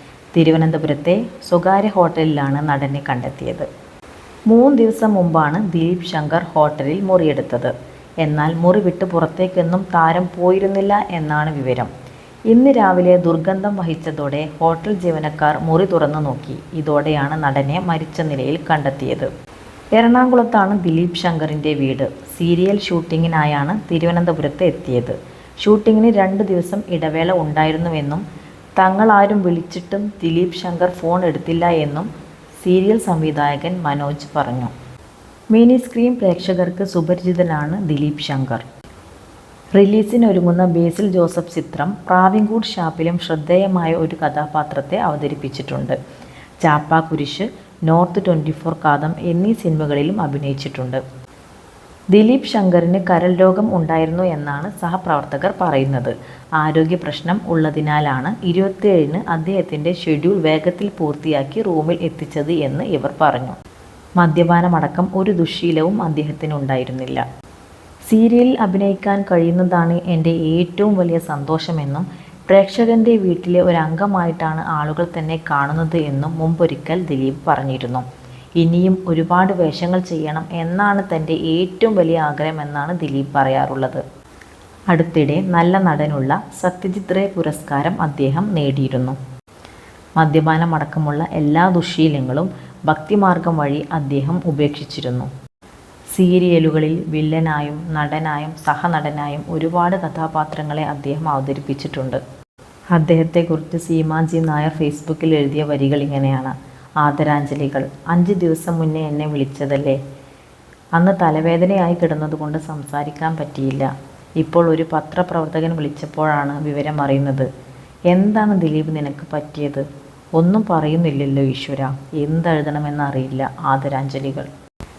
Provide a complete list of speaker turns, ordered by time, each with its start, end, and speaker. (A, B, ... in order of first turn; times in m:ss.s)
0:00.3-0:03.7 A
0:04.5-0:11.9 A
0:12.5-0:19.3 A
0:19.9-0:28.2 A
0:28.8-0:32.1 A
0:32.6-0:34.7 A
0:35.5-0:38.6 A
0:39.7-0:46.0 A
0:46.6-0:51.0 A
0:52.1-1:03.5 A
1:04.2-1:07.2 A
1:08.1-1:18.0 A
1:18.6-1:24.0 A
1:24.9-1:29.2 A
1:30.2-1:35.3 A
1:36.1-1:42.2 A
1:42.9-1:50.0 A
1:51.0-1:57.5 A
1:58.1-1:59.8 A
2:00.4-2:04.5 A